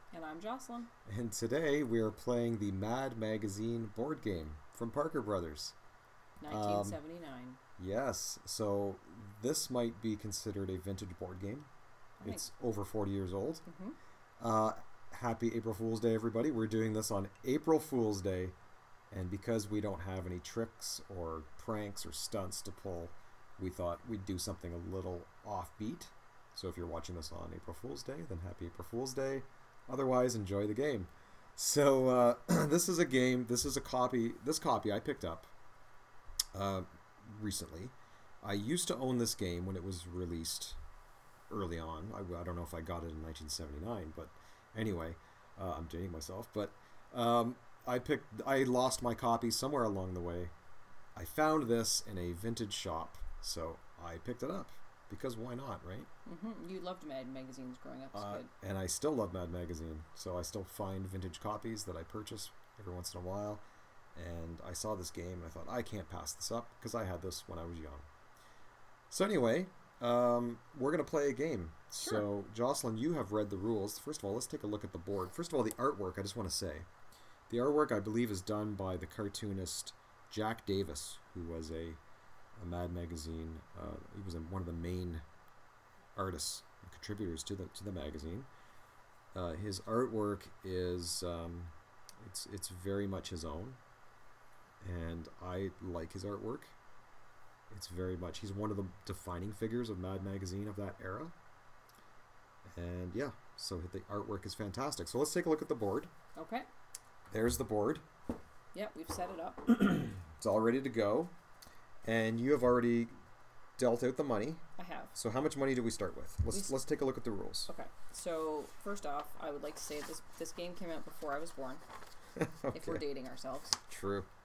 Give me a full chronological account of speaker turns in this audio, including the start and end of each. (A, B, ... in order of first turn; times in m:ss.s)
0:00.1-0:00.9 A
0:01.1-0:05.8 B
0:06.4-0:07.6 A
0:06.5-0:07.0 B
0:07.8-0:11.7 B
0:12.2-0:12.5 A
0:12.2-0:13.6 B
0:13.7-0:14.0 A
0:14.4-0:18.6 B
0:19.1-0:35.5 B
0:36.5-0:40.8 B
0:41.5-0:50.5 B
0:51.2-0:56.1 B
0:56.3-0:58.5 A
0:58.1-1:03.6 B
1:04.2-1:08.0 B
1:09.1-1:16.9 B
1:17.5-1:22.0 B
1:22.6-1:25.2 B
1:26.2-1:28.5 B
1:29.3-1:33.8 B
1:34.8-1:36.7 B
1:37.7-1:41.3 B
1:42.7-1:46.1 B
1:46.4-1:46.7 A
1:47.3-1:48.0 B
1:48.7-1:49.7 A
1:49.7-1:51.3 B
1:52.0-1:53.1 B
1:53.8-1:54.6 B
1:54.8-1:55.1 A
1:55.1-1:57.7 B
1:57.7-2:01.8 A
2:02.4-2:03.0 B
2:02.7-2:03.8 A
2:03.9-2:04.3 B